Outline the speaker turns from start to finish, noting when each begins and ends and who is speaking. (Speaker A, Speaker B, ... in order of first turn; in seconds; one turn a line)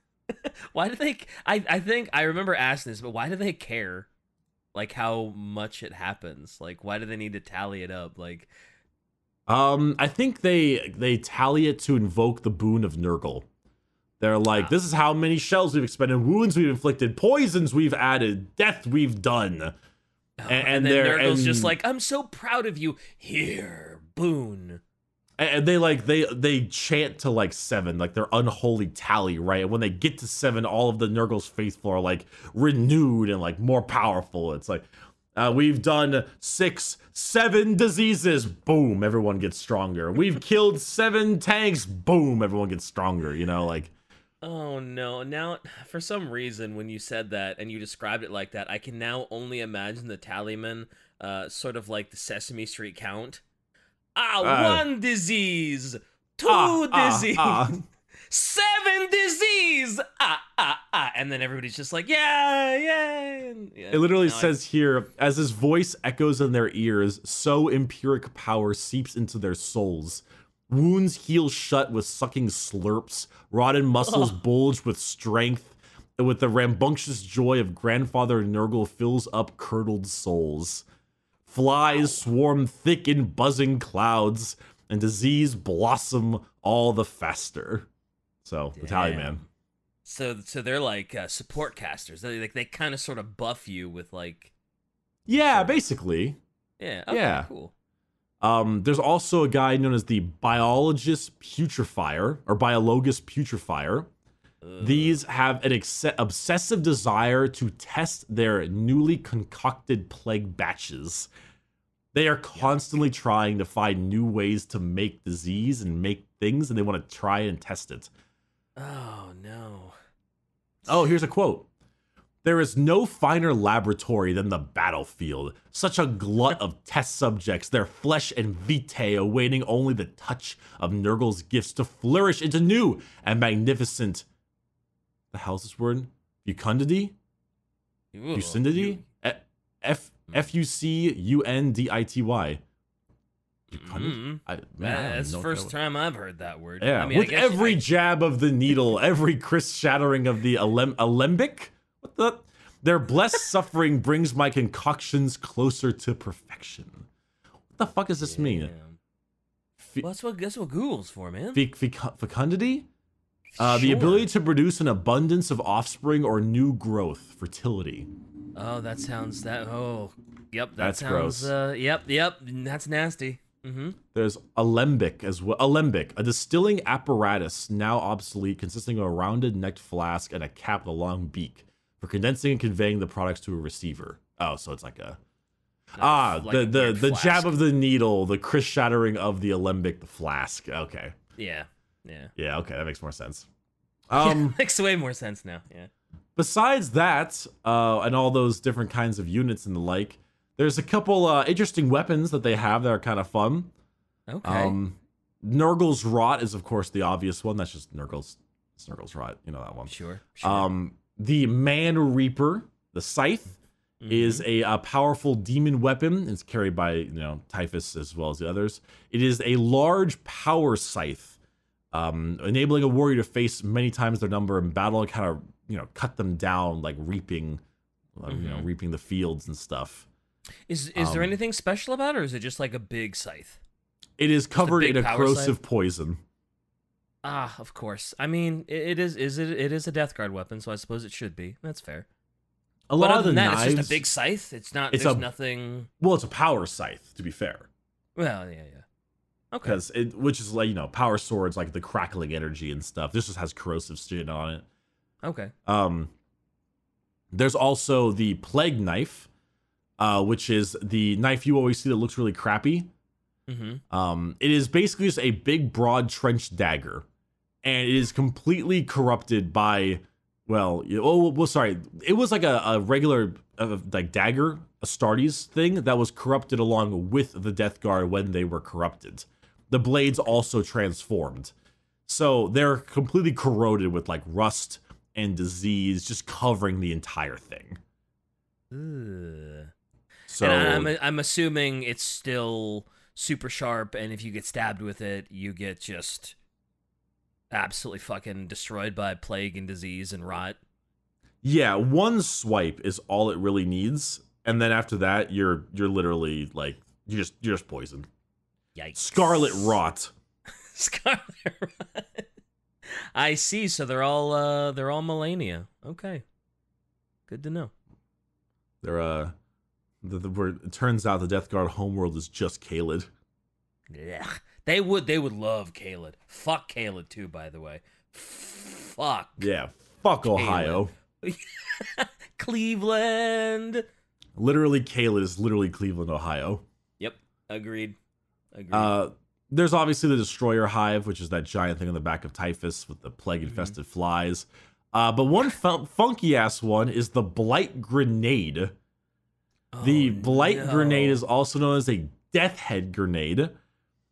Speaker A: 0.4-4.1
Speaker A: 4.7-8.5
Speaker B: 9.5-13.5
Speaker B: 14.2-19.8
Speaker A: 20.4-24.8
Speaker B: 20.5-21.8
Speaker B: 25.4-43.9
Speaker A: 44.4-53.4
Speaker A: 54.1-57.8
Speaker B: 54.4-54.9
Speaker B: 56.5-57.8
Speaker A: 58.3-64.5
Speaker B: 63.9-80.8
Speaker A: 74.0-74.4
Speaker B: 81.5-87.9
Speaker B: 88.4-89.4
Speaker A: 88.8-89.5
Speaker A: 90.0-94.5
Speaker B: 95.3-96.4
Speaker A: 95.5-95.8
Speaker A: 96.8-97.7
Speaker B: 97.1-97.5
Speaker B: 98.4-104.1
Speaker A: 104.6-105.2
Speaker B: 104.8-111.3
Speaker B: 112.1-118.1
Speaker A: 118.8-120.0
Speaker B: 120.9-121.7
Speaker B: 122.4-134.3
Speaker B: 135.3-137.2
Speaker A: 138.1-139.0
Speaker B: 138.3-142.6
Speaker B: 143.7-145.7
Speaker A: 143.7-147.8
Speaker B: 146.8-157.1
Speaker B: 157.8-158.7
Speaker A: 158.2-159.0
Speaker B: 159.8-160.1
Speaker A: 160.0-161.6
Speaker B: 161.5-162.9
Speaker A: 163.5-164.3
Speaker B: 163.6-168.1
Speaker A: 168.6-174.0
Speaker B: 170.8-171.5
Speaker B: 174.1-185.2
Speaker B: 186.0-191.2
Speaker A: 186.0-187.5
Speaker A: 191.4-192.3
Speaker B: 192.4-193.5
Speaker B: 194.1-194.6
Speaker A: 194.2-195.9
Speaker B: 196.4-203.7
Speaker A: 204.3-204.8
Speaker B: 204.4-213.6
Speaker A: 209.9-210.7
Speaker A: 214.0-214.4
Speaker B: 214.1-221.4
Speaker B: 221.9-227.6
Speaker B: 228.2-230.1
Speaker A: 228.3-228.7
Speaker A: 230.7-233.6
Speaker B: 230.9-231.3
Speaker B: 234.2-236.2
Speaker A: 234.6-235.6
Speaker A: 237.2-242.1
Speaker B: 242.9-244.0
Speaker A: 243.0-245.9
Speaker B: 244.9-245.3
Speaker B: 246.0-247.7
Speaker A: 248.2-248.8
Speaker A: 249.5-249.8
Speaker B: 249.6-254.7
Speaker A: 255.2-255.5
Speaker B: 255.7-256.1
Speaker B: 257.3-259.3
Speaker B: 260.0-262.9
Speaker A: 263.5-263.8
Speaker B: 263.9-267.1
Speaker B: 267.6-281.5
Speaker B: 282.1-287.8
Speaker A: 288.7-289.7
Speaker B: 290.3-290.9
Speaker A: 290.4-296.4
Speaker A: 297.5-300.6
Speaker B: 301.4-308.1
Speaker A: 308.8-309.8
Speaker B: 309.0-310.1
Speaker A: 310.6-312.3
Speaker A: 312.9-316.2
Speaker A: 317.3-317.7
Speaker B: 318.8-319.3
Speaker B: 320.0-323.1
Speaker A: 323.9-329.5
Speaker B: 329.4-330.9
Speaker A: 330.2-333.9
Speaker B: 334.4-336.6
Speaker A: 337.0-338.0
Speaker A: 338.5-338.9
Speaker B: 338.7-348.7
Speaker A: 343.5-343.8
Speaker A: 349.7-351.2
Speaker B: 349.8-353.5